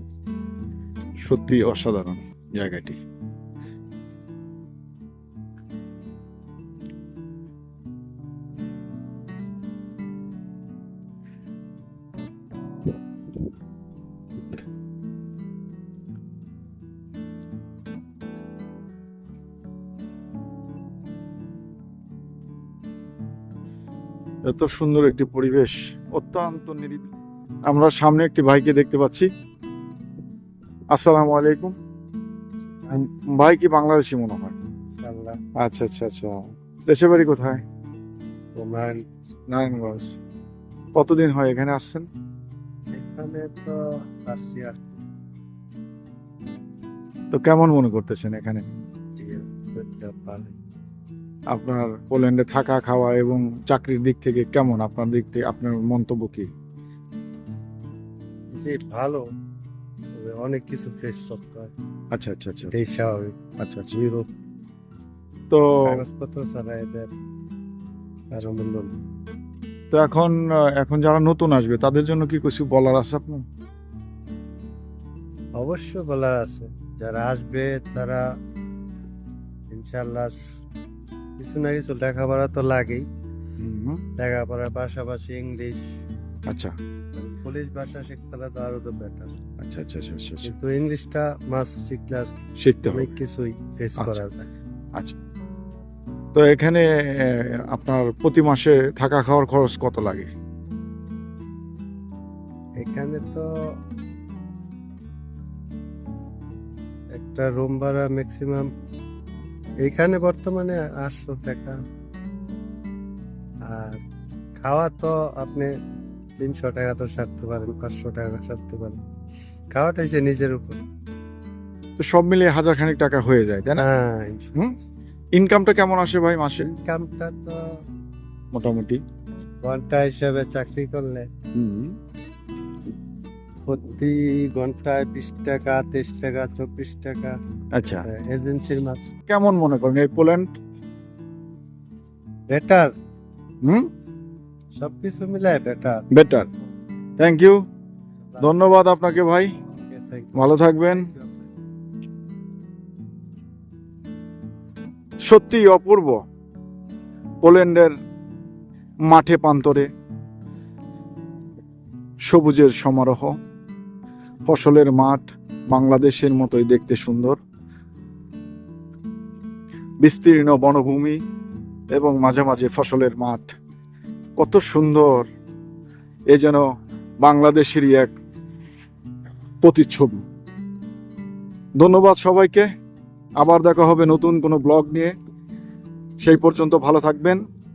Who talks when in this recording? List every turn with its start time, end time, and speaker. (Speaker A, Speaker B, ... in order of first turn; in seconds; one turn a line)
Speaker A: 1.2-3.0
Speaker A: 24.5-27.1
Speaker A: 27.6-29.3
Speaker A: 30.9-31.8
Speaker A: 32.9-34.5
Speaker B: 35.0-35.4
Speaker A: 35.6-36.4
Speaker A: 36.9-37.6
Speaker B: 38.6-39.0
Speaker A: 39.5-40.2
Speaker A: 41.0-42.1
Speaker B: 42.9-45.0
Speaker A: 47.3-48.6
Speaker B: 49.2-50.6
Speaker A: 51.5-56.5
Speaker B: 58.6-59.2
Speaker B: 60.2-61.7
Speaker A: 62.1-62.8
Speaker B: 62.7-63.4
Speaker A: 63.6-64.0
Speaker B: 64.0-64.3
Speaker A: 65.5-66.0
Speaker B: 65.9-67.1
Speaker B: 68.3-68.9
Speaker A: 69.9-73.4
Speaker B: 75.6-78.2
Speaker B: 79.7-80.4
Speaker B: 81.4-83.1
Speaker A: 83.6-84.0
Speaker B: 84.2-85.8
Speaker A: 86.5-86.7
Speaker B: 87.2-89.4
Speaker A: 89.6-90.5
Speaker B: 90.4-94.5
Speaker A: 92.6-93.1
Speaker A: 96.3-100.3
Speaker B: 102.8-103.5
Speaker B: 107.2-108.7
Speaker B: 109.8-111.8
Speaker B: 113.6-114.0
Speaker B: 114.6-115.7
Speaker B: 116.4-119.0
Speaker B: 119.7-120.8
Speaker A: 122.0-123.8
Speaker B: 123.8-124.5
Speaker A: 125.3-126.7
Speaker B: 126.7-127.6
Speaker A: 128.5-129.0
Speaker B: 129.6-131.3
Speaker A: 131.6-132.0
Speaker B: 133.7-137.4
Speaker A: 137.8-138.1
Speaker B: 138.1-139.1
Speaker A: 139.3-140.5
Speaker B: 142.5-142.9
Speaker A: 143.6-143.9
Speaker B: 144.8-146.1
Speaker A: 146.1-146.5
Speaker A: 147.2-147.6
Speaker B: 148.3-148.7
Speaker A: 148.4-149.5
Speaker B: 149.9-151.5
Speaker A: 150.3-151.1
Speaker A: 155.2-156.2
Speaker A: 157.4-157.9
Speaker A: 159.1-159.9
Speaker A: 162.3-163.3
Speaker A: 164.5-167.4
Speaker A: 170.0-171.2
Speaker A: 171.9-173.6
Speaker A: 174.4-175.3
Speaker A: 176.3-176.7
Speaker A: 177.2-178.1
Speaker A: 179.6-180.2
Speaker A: 181.8-182.7
Speaker A: 183.4-185.1
Speaker A: 186.2-187.4